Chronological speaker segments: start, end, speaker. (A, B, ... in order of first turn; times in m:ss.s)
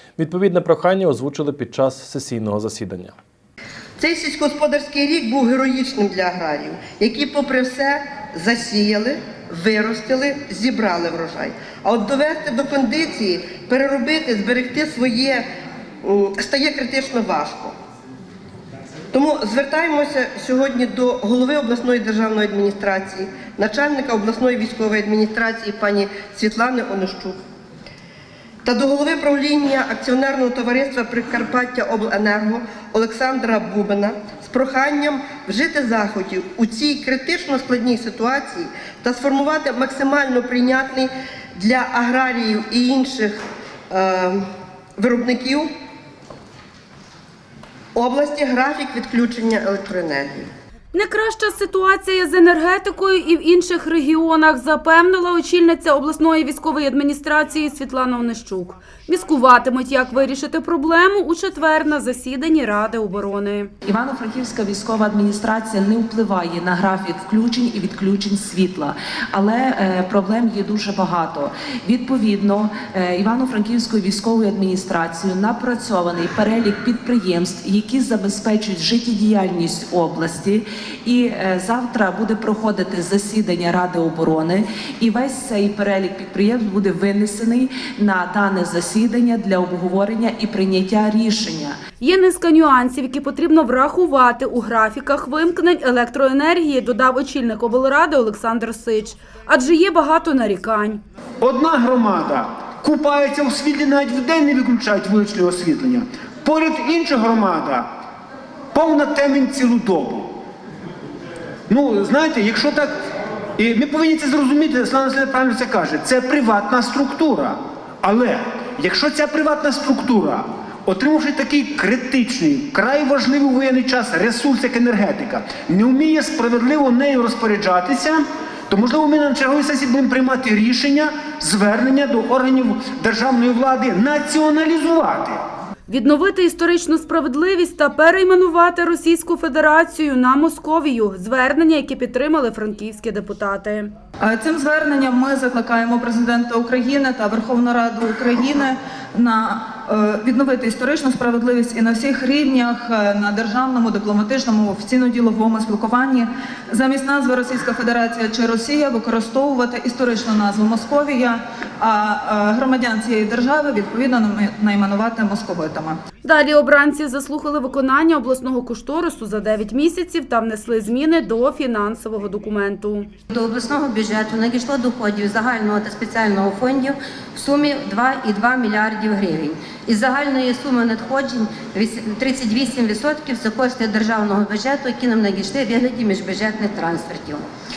0:00.2-0:03.2 A
0:04.0-0:15.4 B
0:16.0-0:17.7 B
0:19.1-0:27.4 B
0:28.6-0:44.4 B
0:45.0-0:45.7 B
0:48.0-0:50.5 B
0:50.9-1:03.7 C
1:03.9-1:31.8 D
1:32.0-1:41.0 C
1:41.4-1:47.9 E
1:48.7-1:50.4 E
1:51.7-1:52.9 E
1:53.6-2:15.4 E
2:15.9-2:23.9 C
2:24.2-2:46.0 F
2:46.2-2:53.1 C
2:53.3-3:07.4 G